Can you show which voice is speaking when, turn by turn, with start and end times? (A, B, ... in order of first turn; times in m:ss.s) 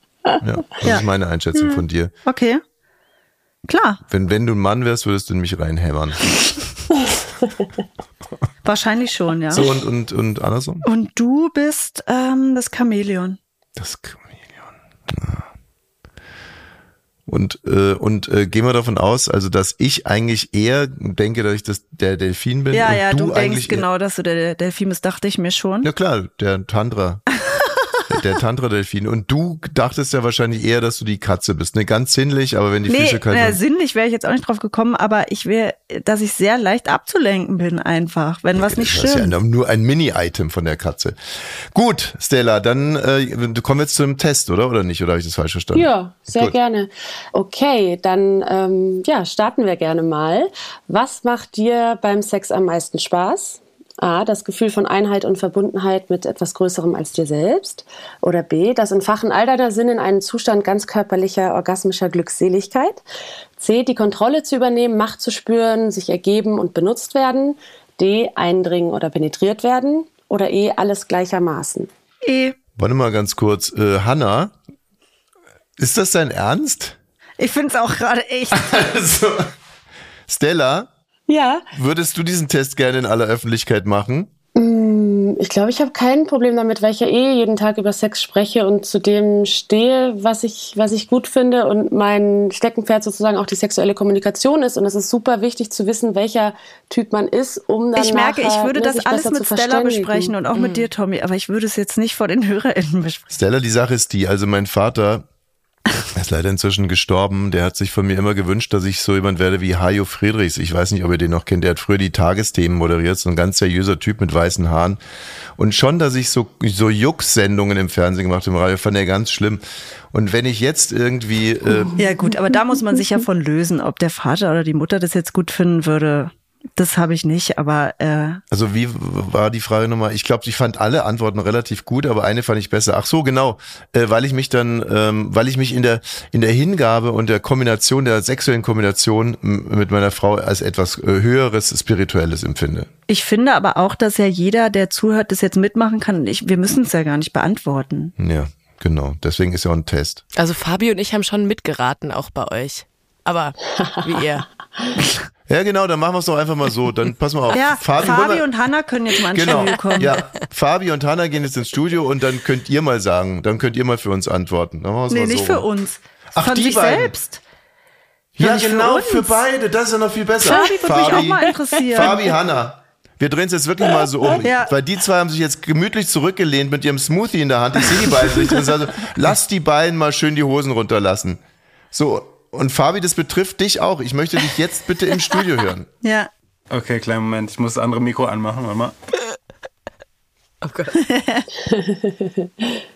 0:00.4-0:02.1 A
0:01.6-0:02.6 B
0:03.7-0:04.0 B
0:04.1-0:06.3 A
0:08.6-0:09.7 B
0:09.5-0:10.9 A
0:10.8-0:13.4 B
0:13.8-0:15.4 A
0:17.3-0:23.8 A
0:22.7-0:25.9 B
0:25.8-0:27.2 A
0:27.5-0:27.8 B
0:28.1-0:33.6 A
0:32.9-0:39.4 B
0:38.6-0:41.2 A
0:41.7-0:46.6 A
0:45.8-1:03.0 C
1:03.6-1:11.9 C
1:12.2-1:12.6 B
1:12.8-1:14.5 A
1:15.8-1:17.0 A
1:17.4-1:18.8 B
1:18.5-1:19.5 A
1:20.3-1:20.9 A
1:21.3-1:21.7 C
1:21.7-1:24.3 A
1:24.6-1:40.3 C
1:38.0-1:43.3 B
1:40.5-1:40.9 D
1:43.3-1:45.3 A
1:46.1-1:55.0 A
1:55.6-2:02.0 A
2:01.9-2:02.4 C
2:02.0-2:08.4 B
2:08.5-2:22.9 A
2:23.1-2:28.1 B
2:28.2-2:30.2 A
2:30.3-2:34.5 D
2:33.8-2:34.2 C
2:35.5-2:38.5 A
2:37.5-2:40.1 B
2:39.3-2:45.7 A
2:45.1-2:47.4 B
2:46.4-2:47.2 A
2:48.4-3:01.4 A
2:48.4-2:49.4 B
2:50.4-2:52.3 B
2:54.4-2:54.8 B
2:58.3-2:58.6 B
3:01.9-3:05.9 A
3:06.0-3:06.3 B
3:06.7-3:08.9 E
3:10.6-3:11.0 D
3:11.0-3:11.5 B
3:11.7-3:12.8 C